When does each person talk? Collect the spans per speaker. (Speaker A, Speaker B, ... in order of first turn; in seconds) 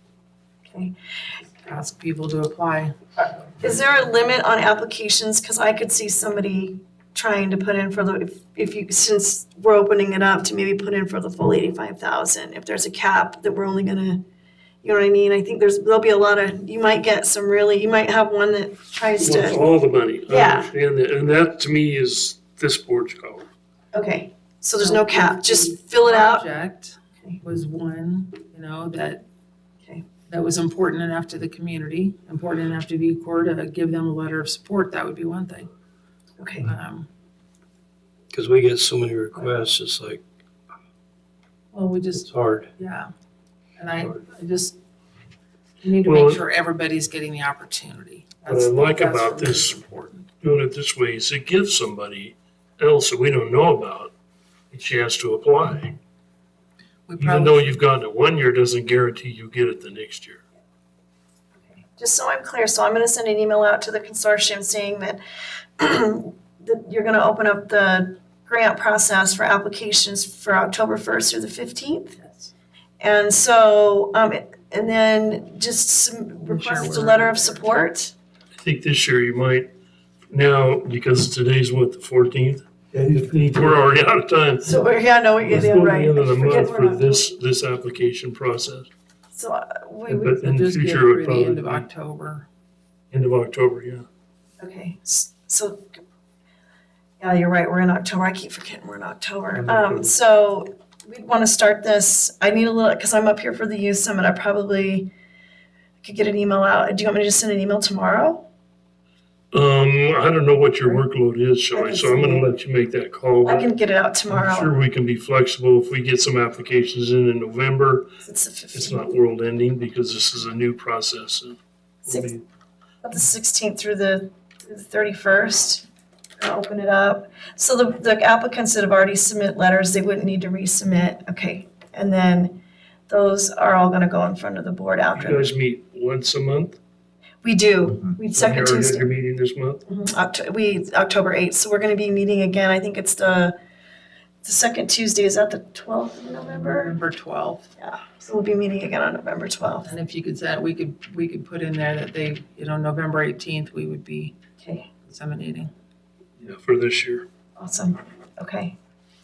Speaker A: 0.7-0.9, 3.6-14.2, 14.8-19.6, 20.3-20.7, 23.9-26.4, 36.4-36.6, 61.9-65.2, 65.8-72.2, 73.0-78.1, 84.6-87.2, 89.3-90.4, 94.6-95.9, 97.2-105.1, 106.0-108.5, 111.7-112.5, 113.4-114.7, 118.2-119.0, 122.1-122.3, 123.0-125.8, 126.4-135.5, 137.4-139.1, 139.9-143.6, 144.4-146.9, 147.8-149.8, 154.6-154.9, 157.6-158.8
Speaker B: 1.6-2.9, 24.8-29.2, 30.3-35.7, 36.6-37.1, 41.7-43.1, 43.8-44.8, 45.8-50.3, 57.1-57.8, 72.2-72.5, 76.4-77.7, 90.4-92.5, 146.4-147.7, 149.8-154.4, 155.1-155.7
Speaker C: 19.2-23.5, 46.0-46.4, 48.5-49.8, 50.4-54.1, 54.7-56.0, 57.2-60.4, 78.6-79.7, 80.3-84.8, 85.4-88.9, 90.1-91.9, 93.1-94.0, 99.5-100.1, 109.5-113.7, 114.3-118.1, 118.7-122.4, 135.1-136.8, 138.3-139.8, 156.4-157.2
Speaker D: 38.3-40.2, 42.1-42.7